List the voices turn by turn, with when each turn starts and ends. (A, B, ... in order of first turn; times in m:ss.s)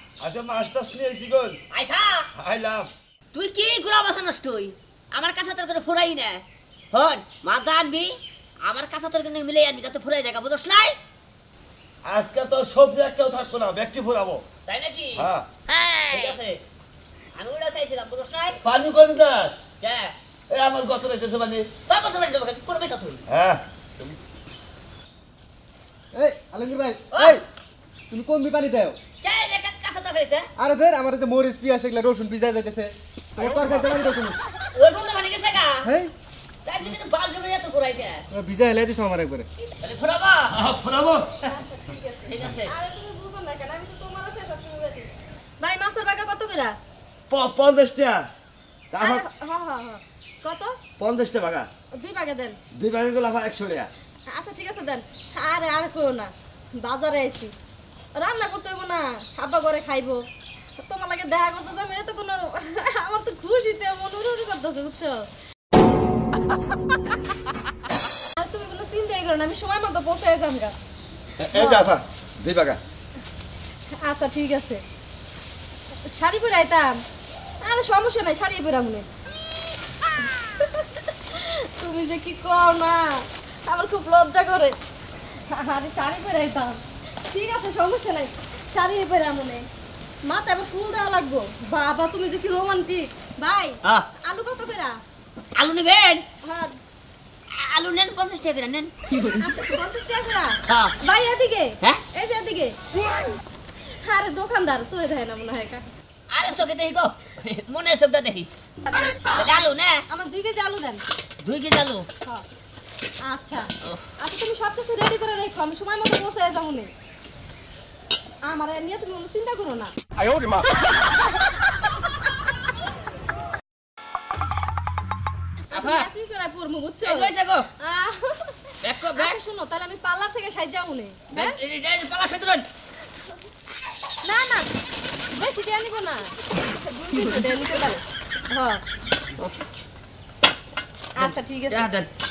0:00.2-0:01.6 A
0:01.7-0:02.3 B
0:02.4-0:02.9 A
0:03.3-0:08.1 B
0:08.6-0:11.0 B
0:12.0-0:14.4 A
0:14.6-0:15.3 B
0:15.2-0:15.5 A
0:15.9-0:16.6 B
0:17.3-0:18.6 B
0:18.6-0:19.6 A
0:19.8-0:20.1 B
0:20.5-0:21.7 A
0:21.9-0:23.2 B
0:23.3-0:24.2 A
0:26.1-0:27.4 C
0:27.1-0:27.4 B
0:28.1-0:29.0 C
0:29.2-0:30.5 B
0:30.6-0:34.4 C
0:34.7-0:35.9 B
0:35.8-0:36.1 C
0:36.6-0:38.2 B
0:38.3-0:39.4 C
0:39.8-0:40.6 B
0:40.5-0:41.3 A
0:41.4-0:45.1 D
0:42.2-0:42.7 B
0:45.6-0:46.7 D
0:47.3-0:48.2 A
0:48.9-0:49.2 A
0:49.0-0:50.7 D
0:51.0-0:51.7 A
0:52.0-0:52.6 D
0:52.7-0:53.9 A
0:54.3-0:57.5 D
0:58.1-1:00.2 D
1:00.8-1:05.3 D
1:08.4-1:10.7 D
1:11.4-1:12.8 A
1:11.5-1:11.8 D
1:14.0-1:14.8 D
1:16.0-1:17.0 D
1:17.6-1:19.1 D
1:20.2-1:24.7 D
1:25.5-1:29.6 D
1:30.2-1:35.0 D
1:35.6-1:36.2 B
1:36.4-1:36.7 D
1:37.5-1:38.9 B
1:39.2-1:42.7 D
1:40.7-1:40.9 B
1:44.0-1:45.8 D
1:46.3-1:48.5 B
1:49.3-1:50.0 B
1:50.1-1:51.0 D
1:51.4-1:52.1 B
1:53.2-1:56.9 D
1:58.4-1:59.9 D
2:05.7-2:08.6 D
2:05.7-2:06.1 B
2:07.0-2:07.7 B
2:08.8-2:09.4 B
2:09.1-2:11.6 D
2:11.3-2:12.6 B
2:14.2-2:14.6 D
2:15.3-2:18.8 D
2:21.2-2:21.9 D
2:21.2-2:22.1 B